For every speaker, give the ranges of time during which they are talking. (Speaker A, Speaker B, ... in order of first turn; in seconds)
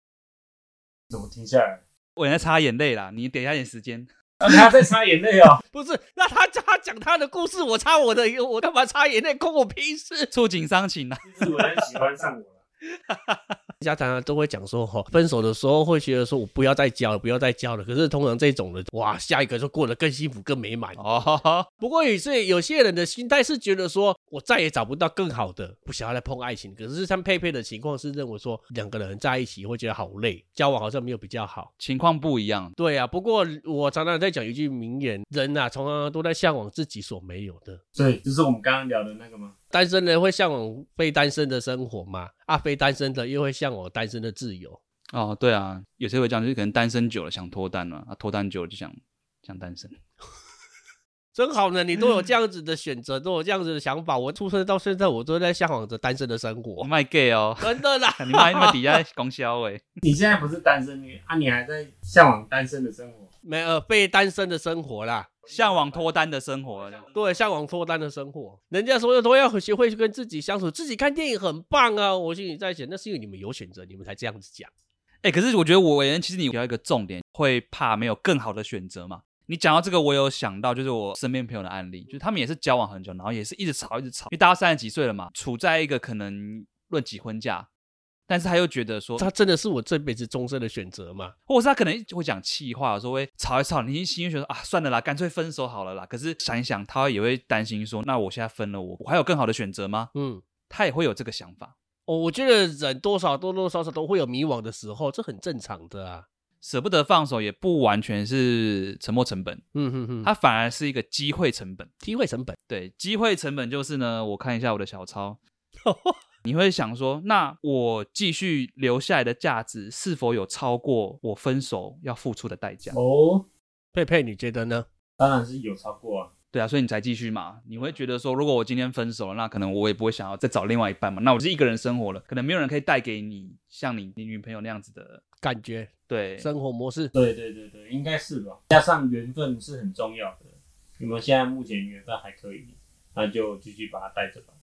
Speaker A: 1.1-1.8, 4.4-5.6, 11.2-12.6, 38.0-39.5, 60.0-63.3, 122.9-123.5, 125.2-126.3, 137.1-144.5
Speaker B: 2.2-4.1, 10.3-11.9, 13.1-13.6, 20.9-21.7, 31.8-32.7, 45.1-49.9, 56.8-59.9, 65.5-67.1, 75.2-87.7, 88.3-89.3, 91.5-100.1, 100.7-101.7, 106.6-109.6, 110.2-111.9, 112.7-115.4, 116.5-123.0, 126.5-135.2, 136.1-136.5
Speaker C: 5.7-10.3, 13.8-21.0, 21.8-31.7, 32.8-37.8, 39.7-44.8, 51.3-56.9, 57.6-59.0, 63.5-65.3, 67.1-74.7, 89.2-91.3, 100.2-100.4, 102.1-106.3, 109.8-110.3, 112.0-112.6, 115.8-116.2, 123.9-124.9, 135.4-137.1